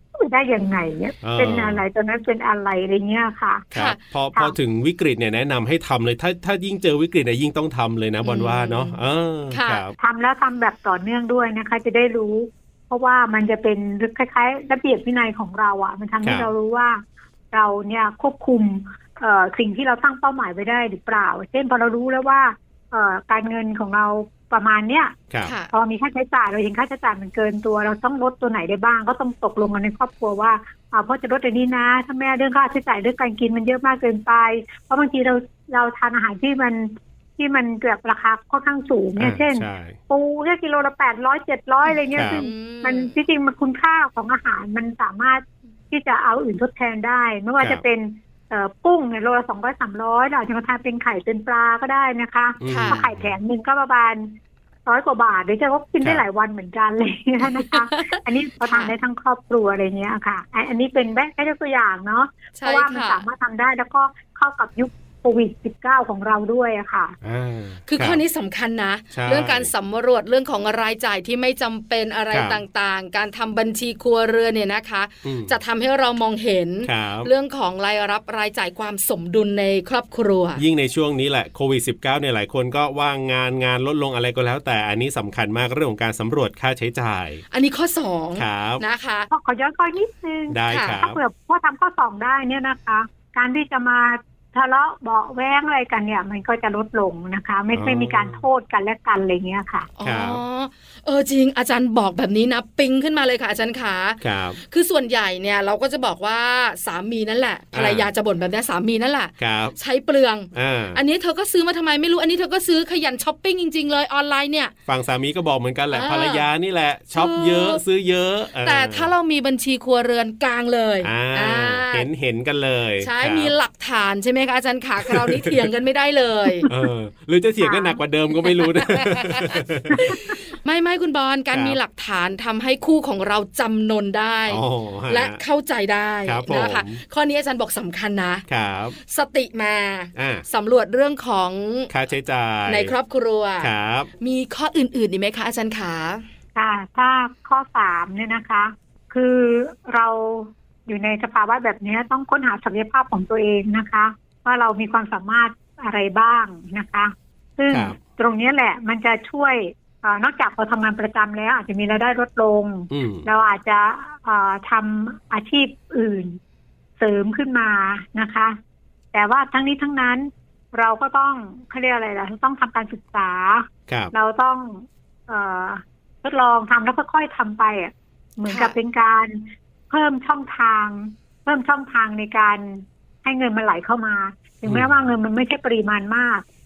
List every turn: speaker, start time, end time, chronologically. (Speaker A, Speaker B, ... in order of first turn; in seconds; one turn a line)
Speaker A: 0.1-3.7
Speaker B: 1.2-1.8
Speaker C: 3.7-4.0
Speaker B: 3.7-9.9
Speaker C: 8.2-9.0
Speaker C: 9.5-9.8
Speaker A: 10.0-25.2
Speaker B: 16.2-16.5
Speaker C: 25.4-25.7
Speaker A: 25.7-67.2
Speaker B: 39.2-40.0
Speaker C: 41.8-43.1
Speaker B: 42.1-42.4
Speaker B: 47.6-47.8
Speaker B: 52.6-53.3
Speaker C: 52.6-53.0
Speaker C: 57.7-58.9
Speaker C: 62.6-63.2
Speaker B: 67.2-68.2
Speaker C: 67.9-80.6
Speaker B: 69.1-69.7
Speaker B: 72.3-72.6
Speaker B: 75.2-75.5
Speaker B: 76.8-77.3
Speaker B: 80.5-87.4
Speaker C: 87.5-89.3
Speaker B: 88.4-88.8
Speaker A: 89.3-99.9
Speaker B: 90.5-91.2
Speaker C: 90.7-91.0
Speaker B: 97.7-98.4
Speaker C: 100.0-114.7
Speaker B: 100.0-100.4
Speaker B: 104.2-104.6
Speaker B: 107.7-108.1
Speaker B: 109.4-109.7
Speaker B: 110.5-111.0
Speaker B: 114.9-119.1
Speaker C: 115.9-116.5
Speaker C: 117.1-117.8
Speaker C: 118.6-122.1
Speaker B: 121.0-123.5
Speaker C: 123.0-126.7
Speaker B: 125.0-125.7
Speaker B: 126.7-130.2
Speaker C: 128.4-138.4
Speaker A: 129.9-130.2
Speaker B: 131.5-131.8
Speaker B: 134.5-135.4
Speaker B: 136.2-137.0
Speaker B: 138.5-138.9
Speaker C: 139.0-141.9
Speaker B: 140.2-140.4
Speaker B: 141.9-142.9
Speaker C: 142.7-143.7
Speaker B: 143.6-144.1
Speaker C: 144.2-146.2
Speaker A: 146.5-166.4
Speaker B: 157.7-157.9
Speaker B: 162.9-163.3
Speaker A: 167.0-168.6
Speaker A: 169.1-186.4
Speaker B: 173.9-174.1
Speaker C: 178.5-178.8